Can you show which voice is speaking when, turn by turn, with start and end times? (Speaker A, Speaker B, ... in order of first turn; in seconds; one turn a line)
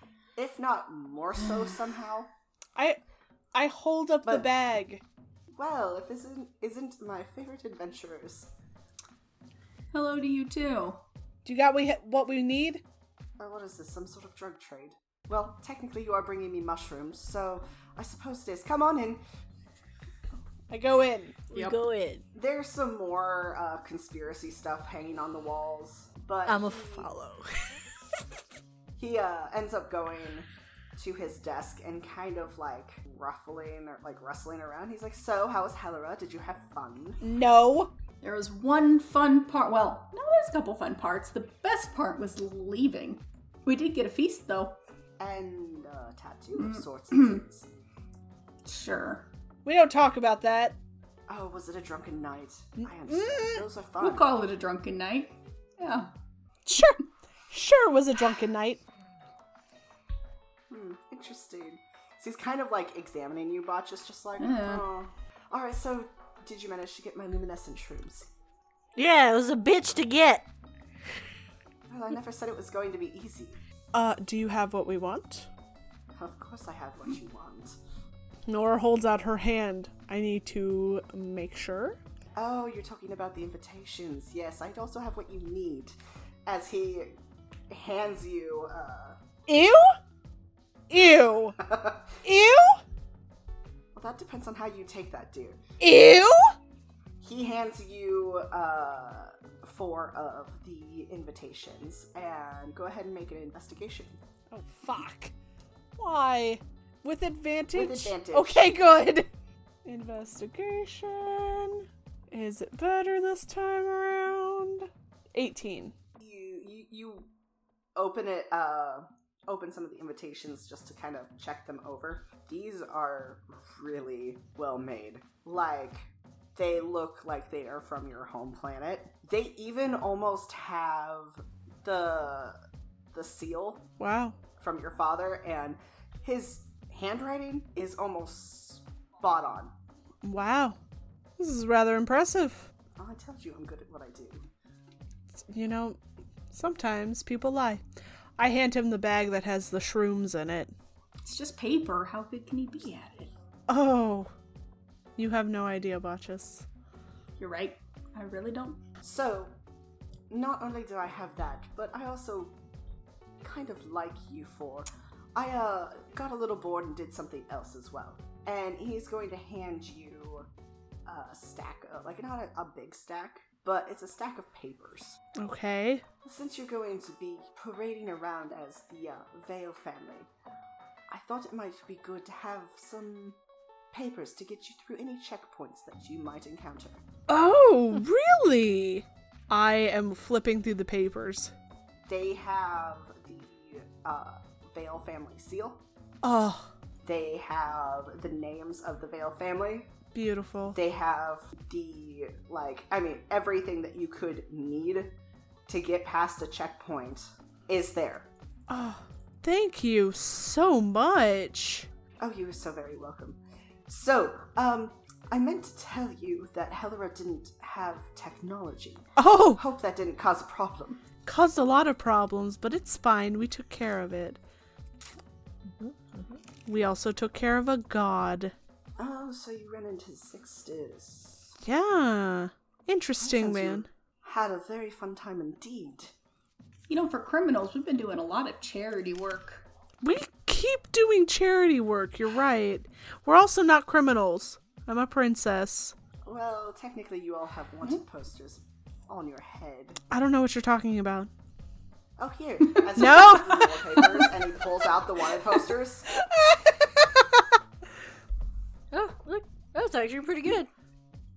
Speaker A: 0.4-2.3
Speaker B: 3.5-5.0
Speaker A: 5.5-8.5
Speaker C: 9.9-11.0
Speaker B: 11.4-12.8
Speaker A: 13.4-19.2
Speaker B: 20.7-21.4
Speaker D: 21.5-22.2
Speaker C: 21.5-21.8
Speaker A: 22.3-27.1
Speaker D: 26.5-28.3
Speaker A: 29.0-37.2
Speaker B: 37.2-37.9
Speaker C: 38.2-44.8
Speaker A: 45.2-47.7
Speaker C: 46.6-47.4
Speaker C: 48.6-49.3
Speaker B: 49.6-50.8
Speaker A: 51.3-54.3
Speaker B: 52.8-53.6
Speaker C: 54.0-56.1
Speaker B: 56.7-58.8
Speaker A: 60.7-68.3
Speaker C: 64.4-64.9
Speaker D: 69.0-70.5
Speaker A: 71.9-73.6
Speaker B: 73.9-75.5
Speaker A: 76.2-77.8
Speaker B: 78.5-82.0
Speaker A: 82.3-87.2
Speaker A: 87.7-89.2
Speaker B: 89.5-90.0
Speaker B: 90.9-91.6
Speaker A: 91.6-92.2
Speaker B: 92.2-92.8
Speaker A: 94.0-95.6
Speaker B: 95.8-96.5
Speaker A: 97.2-104.2
Speaker B: 104.5-105.3
Speaker B: 106.0-109.3
Speaker A: 107.7-108.8
Speaker B: 109.8-115.9
Speaker A: 116.2-117.3
Speaker A: 118.0-132.6
Speaker A: 133.1-133.9
Speaker B: 134.0-134.4
Speaker A: 134.6-139.7
Speaker B: 140.2-140.8
Speaker B: 141.4-142.7
Speaker A: 143.0-144.5
Speaker B: 145.3-146.0
Speaker B: 146.5-147.8
Speaker B: 148.4-150.7
Speaker C: 151.2-153.3
Speaker B: 153.7-154.3
Speaker B: 155.2-156.7
Speaker C: 157.4-158.8
Speaker A: 159.0-159.5
Speaker A: 160.3-162.6
Speaker A: 163.4-170.5
Speaker A: 171.1-175.2
Speaker B: 175.4-176.0
Speaker A: 176.2-180.3
Speaker A: 181.1-183.4
Speaker A: 183.9-187.0
Speaker B: 187.3-191.5
Speaker A: 192.1-195.8
Speaker B: 196.2-196.7
Speaker A: 197.0-199.9
Speaker B: 200.1-200.8
Speaker A: 200.7-205.1
Speaker A: 205.7-208.3
Speaker B: 208.7-211.9
Speaker A: 212.2-221.0
Speaker B: 219.2-219.6
Speaker B: 221.3-224.4
Speaker D: 225.7-226.4
Speaker B: 226.7-228.5
Speaker A: 229.0-231.6
Speaker B: 231.6-233.9
Speaker A: 233.2-236.1
Speaker C: 236.9-239.7
Speaker B: 240.0-245.9
Speaker A: 246.2-250.0
Speaker B: 250.1-251.3
Speaker A: 252.2-256.2
Speaker B: 253.0-254.3
Speaker B: 256.2-257.3
Speaker D: 258.9-260.7